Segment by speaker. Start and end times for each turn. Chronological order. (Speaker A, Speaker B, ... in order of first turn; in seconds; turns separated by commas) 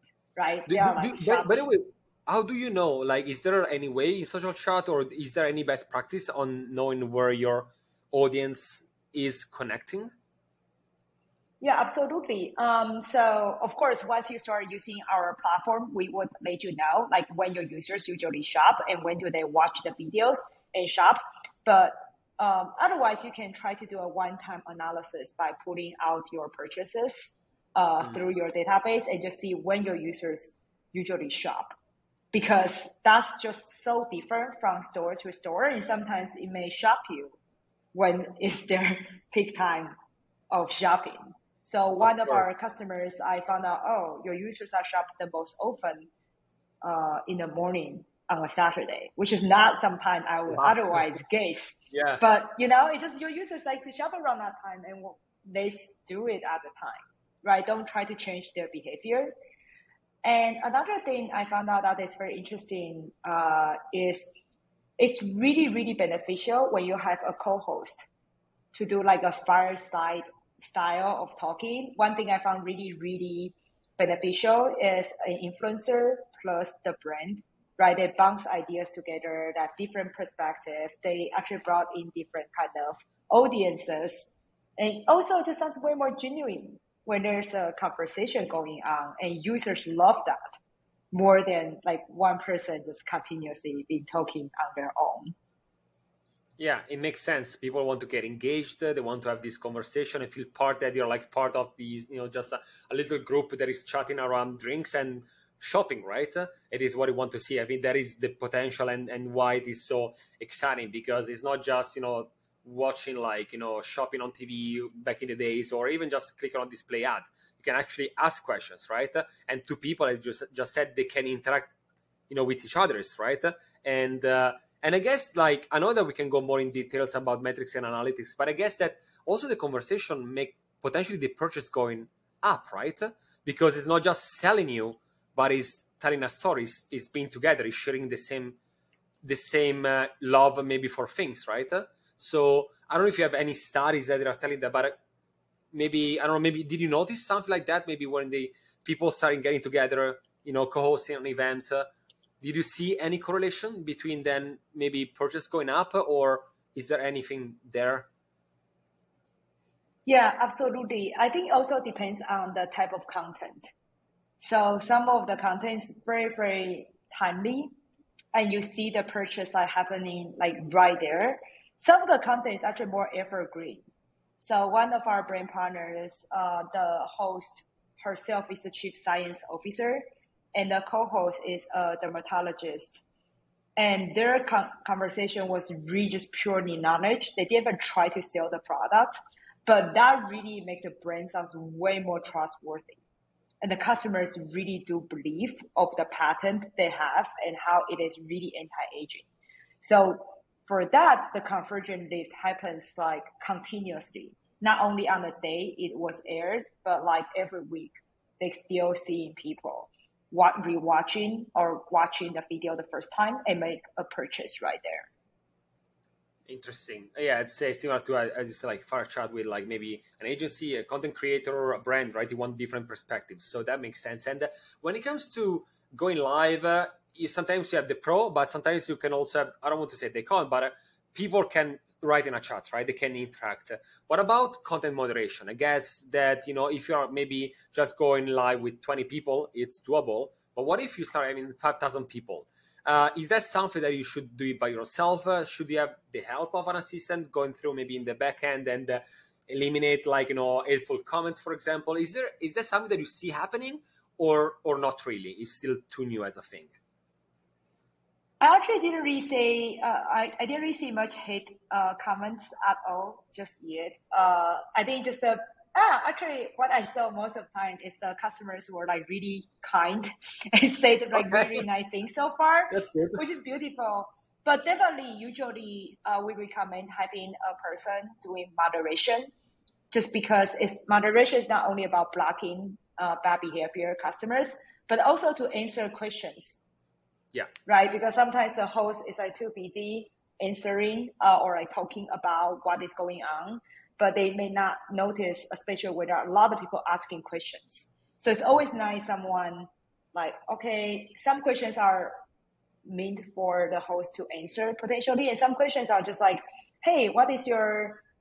Speaker A: 0.3-1.6, Speaker B: 0.7-10.1, Speaker A: 11.6-31.7, Speaker A: 32.3-37.4, Speaker A: 37.9-39.9, Speaker A: 40.5-46.1, Speaker B: 42.0-42.4, Speaker A: 46.8-59.3, Speaker B: 50.5-51.2, Speaker B: 51.9-52.2, Speaker A: 60.2-64.3, Speaker A: 65.0-68.0, Speaker A: 68.7-90.6, Speaker A: 91.1-95.3, Speaker B: 96.6-121.7, Speaker B: 122.3-138.6, Speaker B: 139.2-145.0, Speaker B: 145.7-151.9, Speaker B: 152.4-158.1, Speaker A: 160.1-163.7, Speaker A: 164.4-167.7, Speaker A: 168.3-173.8, Speaker A: 174.4-180.0, Speaker A: 180.5-183.0, Speaker A: 183.8-193.0, Speaker A: 193.6-199.3, Speaker A: 199.8-215.1, Speaker B: 216.5-256.7, Speaker A: 258.4-279.3, Speaker B: 271.1-271.6, Speaker B: 272.7-273.2, Speaker A: 279.9-286.6, Speaker A: 287.7-302.2, Speaker A: 302.9-308.0